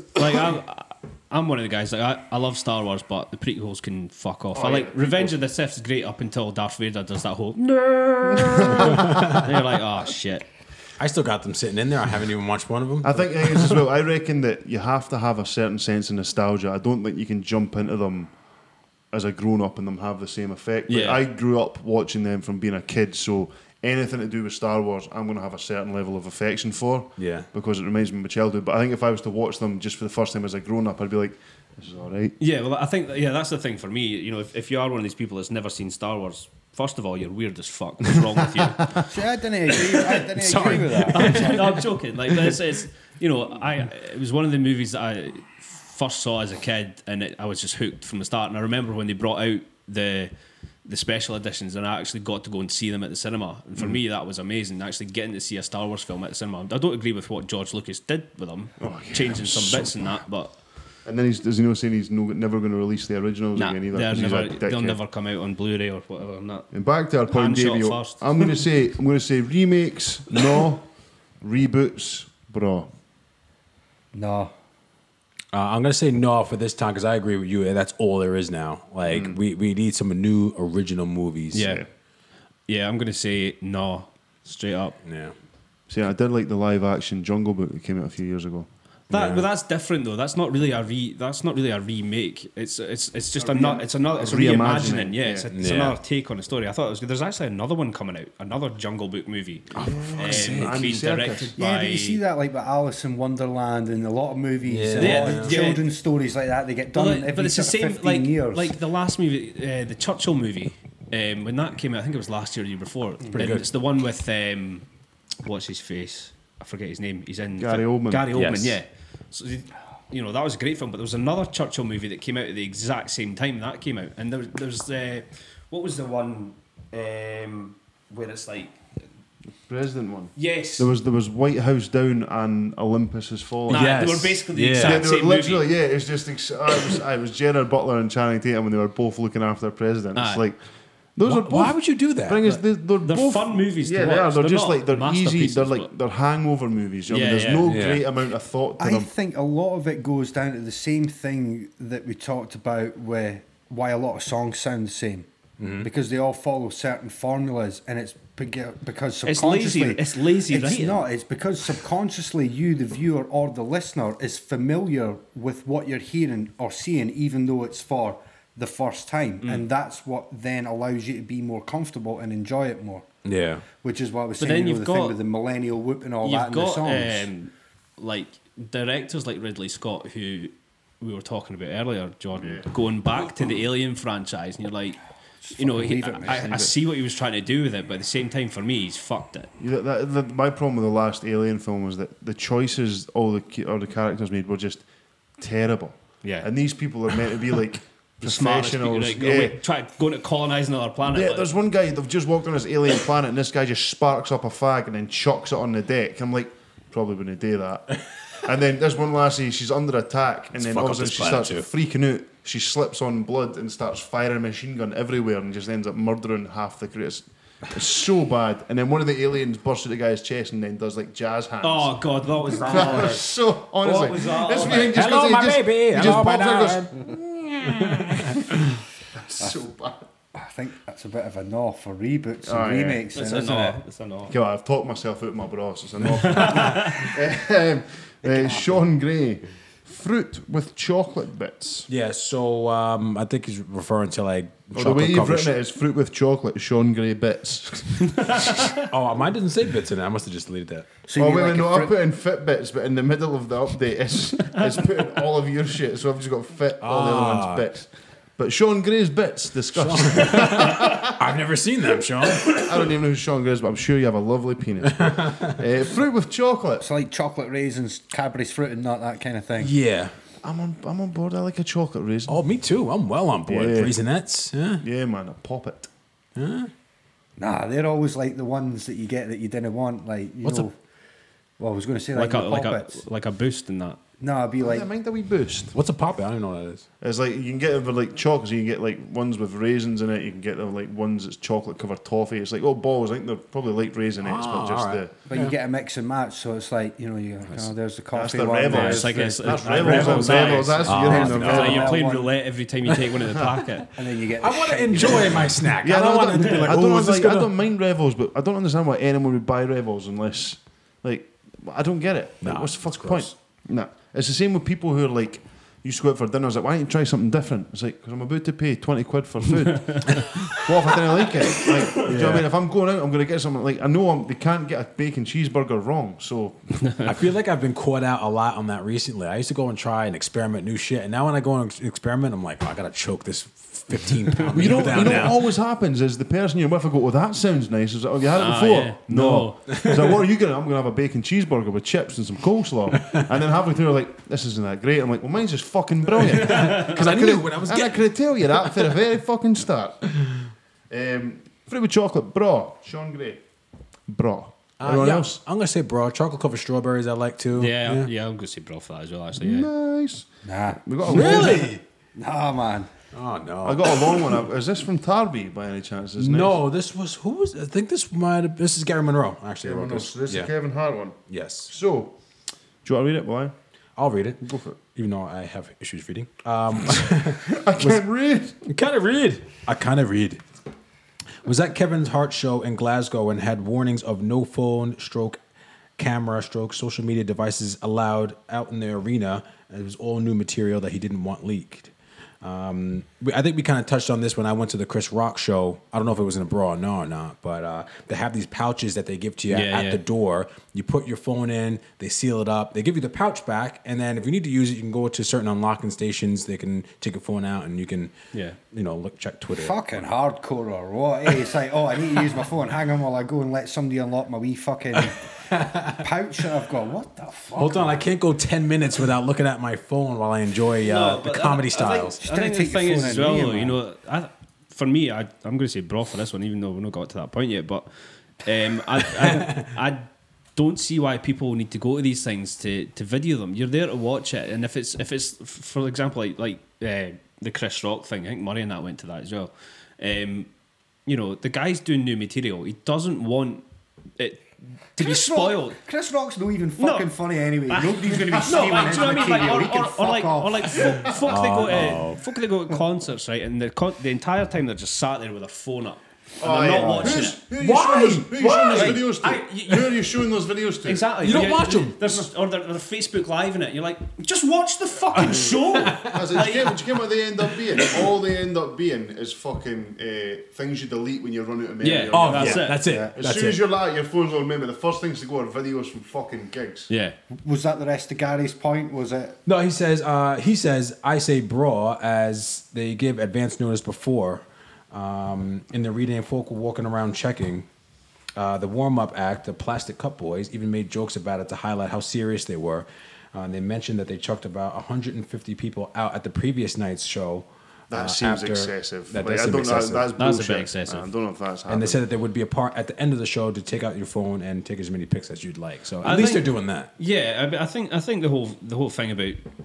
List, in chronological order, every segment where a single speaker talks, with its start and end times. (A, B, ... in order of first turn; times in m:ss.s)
0:00.2-0:10.4 A
0:04.5-0:05.4 B
0:08.3-0:09.0 B
0:08.9-0:09.4 C
0:11.0-0:13.8 C
0:13.0-0:18.3 B
0:19.1-0:32.4 B
0:20.9-0:21.2 A
0:27.2-0:27.5 C
0:32.4-0:39.0 A
0:39.1-0:41.8 D
0:39.8-0:40.2 A
0:40.4-0:41.8 C
0:41.1-0:50.3 A
0:50.8-1:00.6 A
0:58.8-1:00.1 B
1:01.0-1:05.0 B
1:03.6-1:06.7 A
1:06.7-1:10.9 B
1:07.3-1:08.6 A
1:11.4-1:12.9 B
1:14.1-1:14.5 D
1:15.5-1:21.8 C
1:19.1-1:19.4 B
1:21.5-1:21.8 A
1:21.6-1:21.9 B
1:22.7-1:25.0 A
1:25.0-1:25.3 C
1:25.9-1:28.7 B
1:29.1-1:42.2 A
1:29.1-1:29.5 C
1:33.5-1:35.5 B
1:35.5-1:36.0 C
1:39.8-1:40.8 C
1:39.8-1:41.6 B
1:41.6-1:48.8 D
1:44.7-1:45.6 C
1:45.0-1:45.9 A
1:46.9-1:54.9 A
1:53.4-1:53.7 C
1:55.4-2:08.8 A
1:57.6-1:58.3 B
1:58.3-1:58.8 C
2:09.7-2:14.0 B
2:10.4-2:10.9 A
2:13.7-2:15.0 C
2:13.7-2:15.7 A
2:14.8-2:20.6 B
2:20.2-2:20.4 A
2:21.2-2:29.1 B
2:21.2-2:22.6 C
2:23.0-2:25.9 A
2:27.1-2:27.8 A
2:27.7-2:28.0 C
2:28.8-2:35.3 D
2:35.6-2:35.9 C
2:35.8-2:53.1 D
2:39.2-2:41.1 A
2:49.4-2:49.7 A
2:53.2-2:53.6 C
2:53.8-2:57.3 D
2:54.4-2:55.2 A
2:56.2-3:05.0 A
3:02.4-3:02.7 B
3:05.4-3:06.5 D
3:05.6-3:09.5 A
3:06.3-3:06.7 B
3:09.6-3:14.9 B
3:15.4-3:19.6 B
3:16.2-3:16.5 A
3:18.2-3:21.5 A
3:21.1-3:42.0 B
3:30.6-3:31.7 C
3:41.6-3:43.3 A
3:42.6-3:48.6 B
3:43.8-3:45.0 A
3:44.9-3:48.5 C
3:49.2-3:50.0 B
3:50.4-3:53.8 D
3:52.4-3:53.0 B
3:53.1-3:54.3 A
3:54.3-4:01.9 B
3:56.2-3:57.1 A
3:58.2-3:58.8 D
4:01.9-4:05.5 C
4:04.7-4:08.7 B
4:08.8-4:10.9 C
4:11.1-4:11.9 D
4:11.2-4:21.2 B
4:16.8-4:17.6 C
4:19.8-4:22.6 C
4:22.4-4:26.9 B
4:25.0-4:25.6 C
4:26.8-4:29.8 D
4:29.6-4:30.1 C
4:30.4-4:32.4 B
4:32.3-4:34.8 C
4:33.5-4:34.0 B
4:34.8-4:35.9 B
4:36.4-4:36.7 C
4:37.4-4:40.8 D
4:41.6-4:43.0 D
4:42.1-4:44.0 A
4:44.2-4:44.9 D
4:44.6-4:45.7 B
4:45.7-4:46.8 C
4:47.0-4:55.1 B
4:54.2-4:55.5 C
4:55.3-5:02.3 D
4:58.1-5:01.9 B
4:58.7-5:03.9 A
5:00.3-5:01.9 C
5:04.0-5:05.6 D
5:04.4-5:07.5 C
5:05.8-5:26.8 B
5:12.4-5:13.3 C
5:19.7-5:20.1 A
5:22.0-5:22.5 C
5:26.8-5:27.2 A
5:27.0-5:35.4 C
5:34.5-5:50.0 B
5:38.4-5:39.9 A
5:46.3-5:48.0 C
5:46.4-5:47.0 A
5:48.6-5:48.9 C
5:50.9-5:53.4 B
5:54.1-5:55.4 B
5:54.8-5:58.1 C
5:57.5-5:59.7 A
5:59.4-6:01.7 B
6:00.4-6:02.9 D
6:01.0-6:01.8 C
6:03.1-6:04.1 C
6:03.6-6:06.6 B
6:06.2-6:10.5 C
6:09.6-6:12.1 B
6:11.3-6:11.7 C
6:12.8-6:13.5 B
6:14.0-6:18.0 C
6:14.4-6:14.8 B
6:17.4-6:18.6 B
6:18.6-6:20.4 C
6:21.4-6:25.4 C
6:26.0-6:48.2 C
6:39.5-6:40.0 A
6:48.3-6:48.6 A
6:48.7-6:49.8 C
6:49.5-6:58.0 D
6:55.5-6:56.1 C
6:57.6-7:02.2 C
7:00.8-7:07.9 A
7:02.2-7:03.8 D
7:08.4-7:20.5 A
7:09.3-7:09.6 C
7:21.1-7:23.6 A
7:24.2-7:25.8 A
7:25.0-7:31.2 D
7:26.8-7:27.1 A
7:27.7-7:37.4 A
7:28.3-7:29.6 B
7:31.3-7:32.2 C
7:36.4-7:41.1 B
7:36.7-7:37.3 D
7:37.5-7:39.0 C
7:38.4-7:40.0 A
7:40.8-7:46.9 A
7:41.2-7:42.1 C
7:45.2-7:46.1 C
7:46.0-7:56.9 B
7:51.8-7:52.8 A
7:52.1-7:53.6 C
7:52.9-7:53.1 D
7:56.9-7:57.2 A
7:57.4-7:59.4 D
7:59.5-8:07.7 C
8:08.4-8:20.1 C
8:17.9-8:22.0 B
8:20.2-8:21.1 A
8:21.7-8:26.9 C
8:26.0-8:29.5 A